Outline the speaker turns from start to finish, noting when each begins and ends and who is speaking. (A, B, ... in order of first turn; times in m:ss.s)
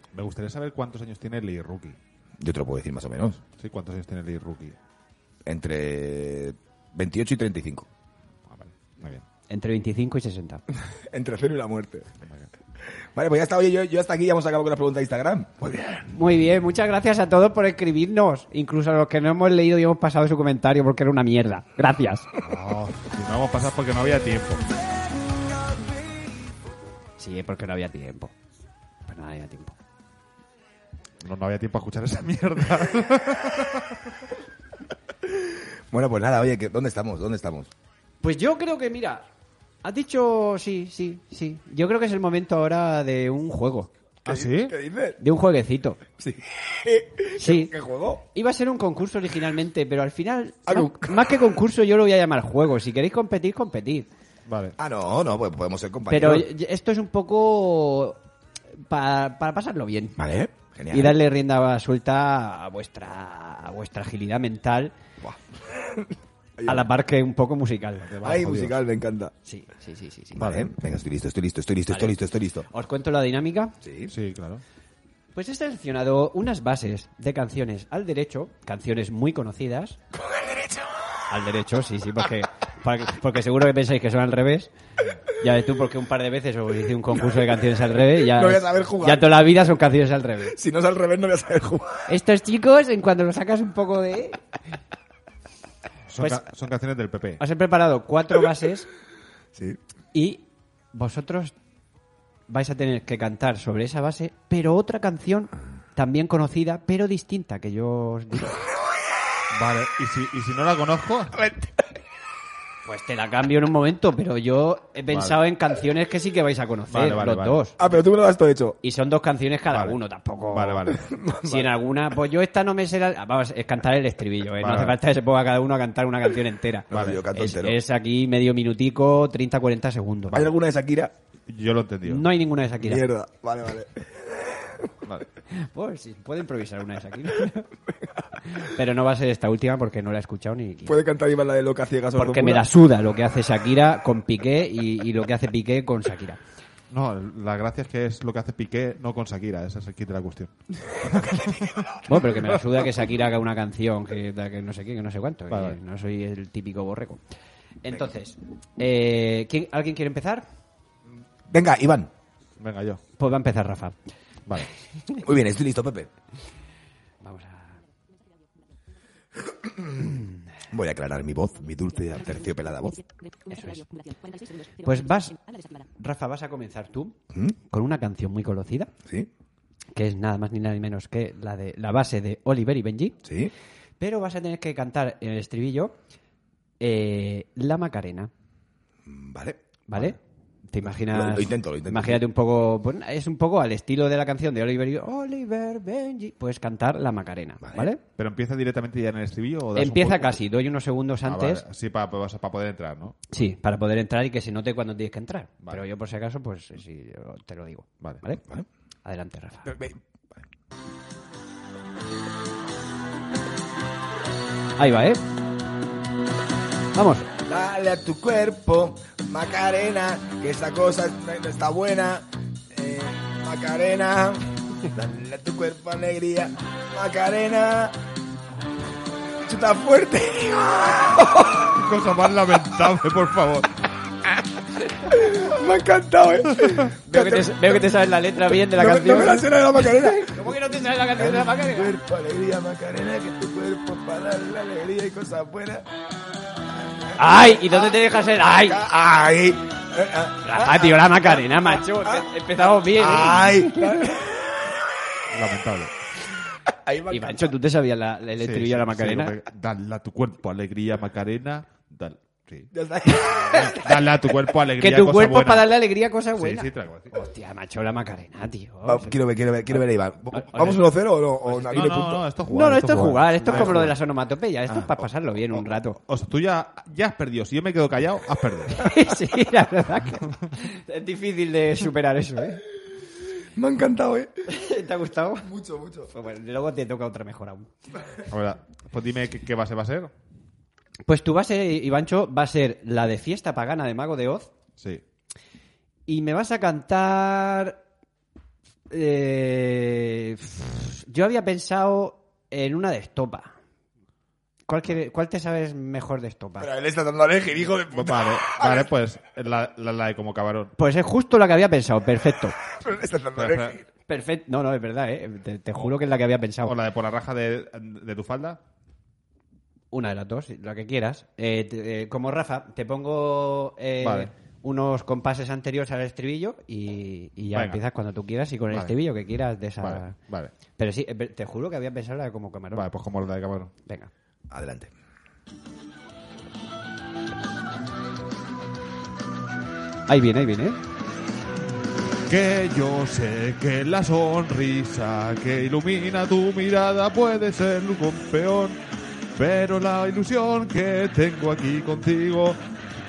0:00.1-0:02.0 A
0:02.4-0:03.4 B
0:03.6-0:04.8 A
0:05.4-0:07.9 B
0:08.5-0:09.2 A
0:09.5-0:10.6 C
0:10.7-0:12.1 B
0:13.1-0:16.0 B
0:16.1-0:22.3 C
0:22.4-0:24.6 A
0:27.2-0:28.3 C
0:29.1-0:29.8 C
0:31.2-0:34.2 A
0:35.3-0:37.7 B
0:38.2-0:39.2 C
0:39.8-0:43.9 C
0:44.3-0:44.8 A
0:44.3-0:45.2 B
0:45.2-0:46.0 C
0:46.2-0:48.2 B
0:47.4-0:47.7 C
0:48.3-0:54.1 C
0:50.7-0:51.3 B
0:54.5-0:54.8 A
0:54.8-0:56.5 B
0:56.1-0:58.2 C
0:58.9-1:00.2 C
1:00.2-1:01.2 B
1:00.9-1:04.9 C
1:05.2-1:06.9 B
1:06.7-1:08.2 C
1:08.0-1:08.8 A
1:08.2-1:09.3 B
1:09.5-1:10.4 C
1:10.4-1:12.7 B
1:10.4-1:10.7 A
1:11.9-1:12.2 C
1:12.7-1:13.8 C
1:13.8-1:14.1 B
1:14.1-1:14.6 A
1:15.4-1:20.0 C
1:20.3-1:20.8 B
1:21.3-1:24.7 C
1:25.3-1:30.6 C
1:28.2-1:29.5 B
1:30.5-1:32.2 B
1:32.1-1:34.4 C
1:36.1-1:37.4 A
1:37.4-1:38.9 C
1:39.5-1:39.8 B
1:40.1-1:41.5 C
1:42.5-1:48.6 C
1:49.5-1:51.5 A
1:51.4-1:51.8 B
1:52.8-1:57.8 C
1:55.1-1:55.4 A
1:56.9-1:57.6 A
1:57.8-1:58.8 B
1:58.8-2:10.5 C
1:59.7-2:00.0 A
2:00.5-2:01.1 A
2:01.0-2:01.7 B
2:04.6-2:05.0 A
2:06.9-2:07.8 B
2:06.9-2:07.2 A
2:10.3-2:11.1 B
2:11.5-2:12.3 A
2:12.0-2:13.1 C
2:12.8-2:14.9 B
2:15.6-2:17.7 C
2:18.4-2:21.0 C
2:20.8-2:22.7 B
2:22.2-2:26.4 C
2:26.9-2:32.6 A
2:31.1-2:31.9 B
2:32.1-2:37.2 C
2:35.5-2:35.8 A
2:37.8-2:40.4 C
2:41.5-2:42.1 B
2:42.6-2:43.0 A
2:43.2-2:44.0 C
2:45.2-2:46.1 B
2:47.2-2:47.8 C
2:49.6-2:50.1 B
2:50.7-2:53.0 B
2:53.4-2:57.2 C
2:57.7-2:58.9 C
2:59.9-3:03.2 C
3:03.2-3:03.5 B
3:04.0-3:05.9 C
3:06.8-3:08.3 C
3:09.1-3:10.2 B
3:09.9-3:10.2 C
3:10.7-3:18.0 C
3:10.8-3:12.2 B
3:17.6-3:17.9 B
3:18.2-3:20.4 A
3:19.8-3:21.6 C
3:21.2-3:23.3 A
3:23.3-3:28.4 C
3:29.0-3:29.8 C
3:29.7-3:30.0 B
3:34.8-3:35.2 C
3:37.0-3:37.3 C
3:37.4-3:48.0 B
3:49.4-3:51.8 B
3:51.7-3:53.7 A
3:55.0-4:05.9 B
3:57.0-4:02.0 C
4:07.2-4:08.8 C
4:07.2-4:12.3 B
4:10.4-4:14.1 C
4:12.9-4:14.8 B
4:15.3-4:15.9 A
4:16.7-4:17.5 B
4:17.1-4:19.4 C
4:18.4-4:22.7 A
4:22.7-4:23.9 B
4:23.4-4:25.7 A
4:24.8-4:29.2 C
4:26.4-4:27.1 A
4:28.8-4:33.9 B
4:30.3-4:30.8 C
4:31.5-4:33.9 A
4:32.5-4:36.0 C
4:35.5-4:38.9 A
4:38.7-4:42.6 C
4:43.6-4:44.5 B
4:44.5-4:45.5 C
4:45.4-4:46.1 B
4:46.1-4:47.7 C
4:48.3-4:50.1 A
4:51.1-4:54.5 C
4:56.1-4:57.8 C
4:58.9-5:03.5 C
5:04.7-5:06.7 C
5:06.6-5:08.9 B
5:07.9-5:10.7 A
5:10.8-5:12.6 C
5:12.8-5:13.8 B
5:13.4-5:13.8 A
5:14.1-5:16.8 C
5:16.6-5:18.6 A
5:19.9-5:30.2 C
5:24.0-5:24.3 A
5:27.5-5:27.8 A
5:29.8-5:30.5 A
5:30.8-5:32.9 C
5:32.8-5:33.7 A
5:34.5-5:34.9 B
5:40.1-5:40.8 C
5:42.3-5:48.8 A
5:49.4-5:52.6 A